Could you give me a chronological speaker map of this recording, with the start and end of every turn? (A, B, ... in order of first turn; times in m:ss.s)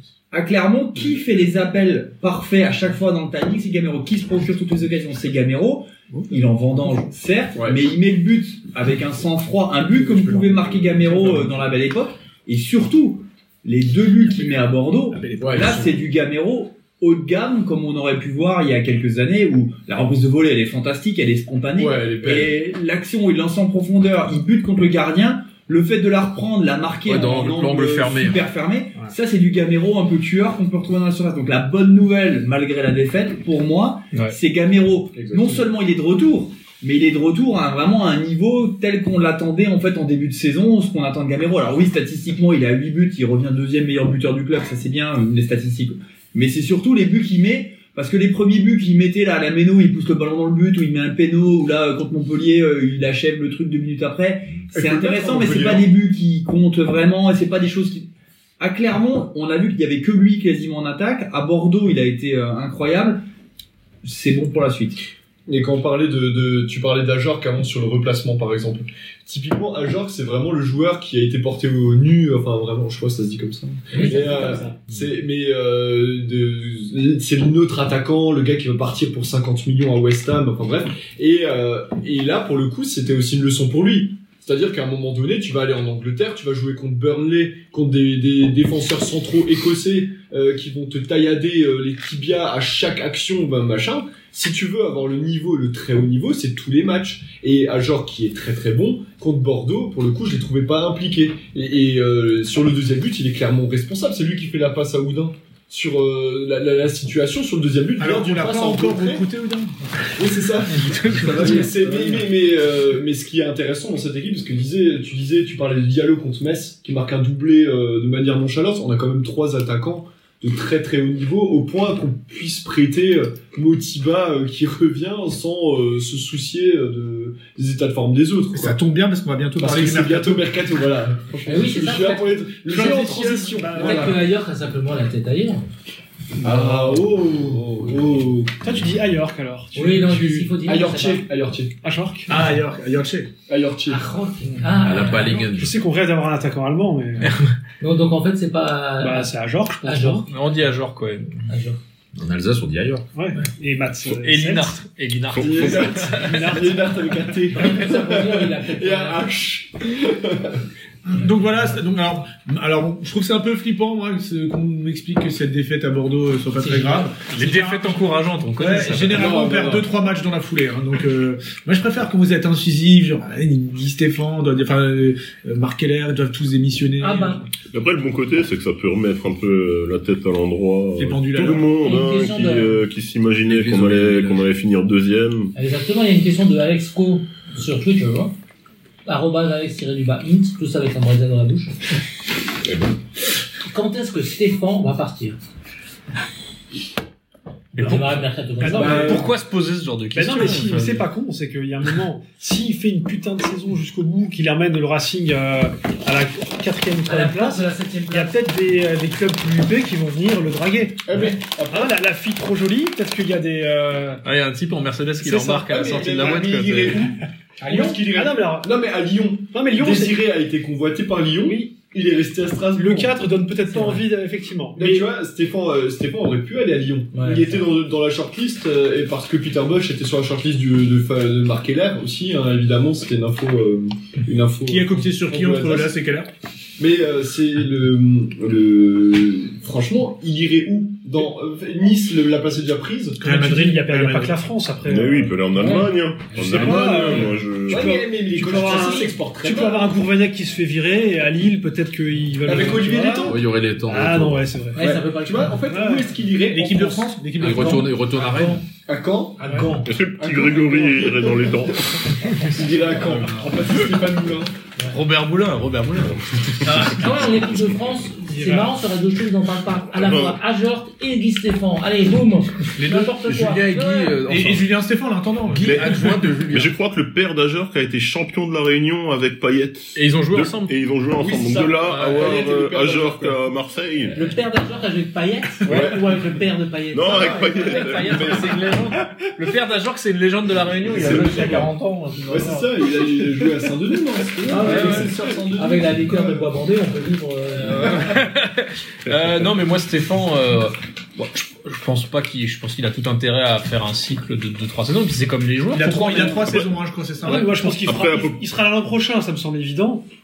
0:00.3-1:03.2 A
0:07.6-0:07.8 B
0:10.0-0:11.5 C
0:15.1-0:16.0 C
0:21.8-0:22.5 B
0:27.1-0:28.4 D
0:35.2-0:35.7 B
0:54.7-0:55.9 B
1:04.0-1:05.0 A
1:05.5-1:49.2 B
1:13.9-1:14.6 E
1:13.9-1:14.8 F
1:48.0-1:50.1 C
1:50.2-2:08.8 B
1:50.8-1:51.7 G
2:08.5-2:10.4 C
2:09.6-2:14.2 B
2:11.5-2:15.6 E
2:12.7-2:14.2 C
2:16.4-2:18.8 B
2:18.6-2:20.5 F
2:19.8-2:21.3 E
2:20.4-2:21.8 B
2:21.8-2:22.3 F
2:22.3-2:23.3 C
2:23.5-2:24.0 B
2:23.9-2:25.5 E
2:24.8-2:25.8 D
2:25.5-2:27.3 F
2:27.2-2:27.5 G
2:27.8-2:30.3 E
2:29.0-2:30.3 F
2:30.3-2:31.4 G
2:31.5-2:31.8 E
2:32.2-2:33.1 D
2:33.2-2:34.8 F
2:34.1-2:36.6 G
2:35.4-2:35.8 H
2:35.4-2:40.6 B
2:36.2-2:36.8 F
2:37.5-2:39.3 E
2:41.1-2:57.5 C
2:46.6-2:47.1 E
2:47.3-2:49.3 G
2:49.2-2:49.8 B
2:57.0-2:57.4 E
2:57.7-3:05.5 H
3:01.0-3:01.7 C
3:01.7-3:02.8 E
3:03.4-3:04.5 D
3:05.6-3:08.3 E
3:09.1-3:11.8 E
3:13.7-3:15.4 E
3:17.8-3:21.1 G
3:17.8-3:19.2 E
3:18.6-3:19.3 F
3:18.7-3:19.2 B
3:20.2-3:34.2 F
3:27.0-3:28.4 E
3:31.1-3:32.0 B
3:34.2-3:37.1 G
3:35.4-3:43.2 B
3:37.6-3:38.7 F
3:39.5-3:40.2 F
3:41.4-3:41.7 F
3:42.7-3:45.1 F
3:43.7-3:44.0 E
3:44.8-3:55.9 B
3:47.1-3:47.6 E
3:54.7-3:56.3 C
3:56.8-4:03.2 B
4:03.2-4:04.4 C
4:03.2-4:05.8 F
4:04.8-4:07.9 H
4:06.4-4:15.0 F
4:06.6-4:10.0 B
4:08.6-4:09.1 E
4:12.4-4:13.4 B
4:13.2-4:14.5 D
4:14.8-4:15.6 E
4:14.8-4:17.1 B
4:15.6-4:16.2 F
4:16.5-4:18.0 C
4:17.4-4:18.6 D
4:17.4-4:18.6 E
4:18.9-4:19.5 B
4:19.4-4:19.9 E
4:19.4-4:19.7 F
4:19.8-4:22.0 H
4:22.4-4:24.5 B
4:24.9-4:27.0 G
4:26.6-4:34.2 E
4:28.3-4:28.7 F
4:29.9-4:30.4 H
4:32.8-4:33.2 C
4:33.2-4:34.7 D
4:34.2-4:36.2 C
4:35.5-4:36.5 D
4:35.6-4:44.3 H
4:36.2-4:36.7 G
4:40.0-4:40.7 G
4:41.2-4:43.4 B
4:41.9-4:42.5 G
4:44.1-4:48.4 E
4:45.7-4:46.1 B
4:46.9-4:48.7 H
4:47.1-4:52.8 G
4:50.8-4:51.7 B
4:51.1-4:51.5 H
4:52.2-4:56.5 B
4:54.5-4:58.1 E
4:54.6-4:55.2 G
4:57.6-5:06.4 G
5:05.7-5:07.7 C
5:06.4-5:06.7 H
5:07.2-5:10.0 F
5:07.7-5:08.4 H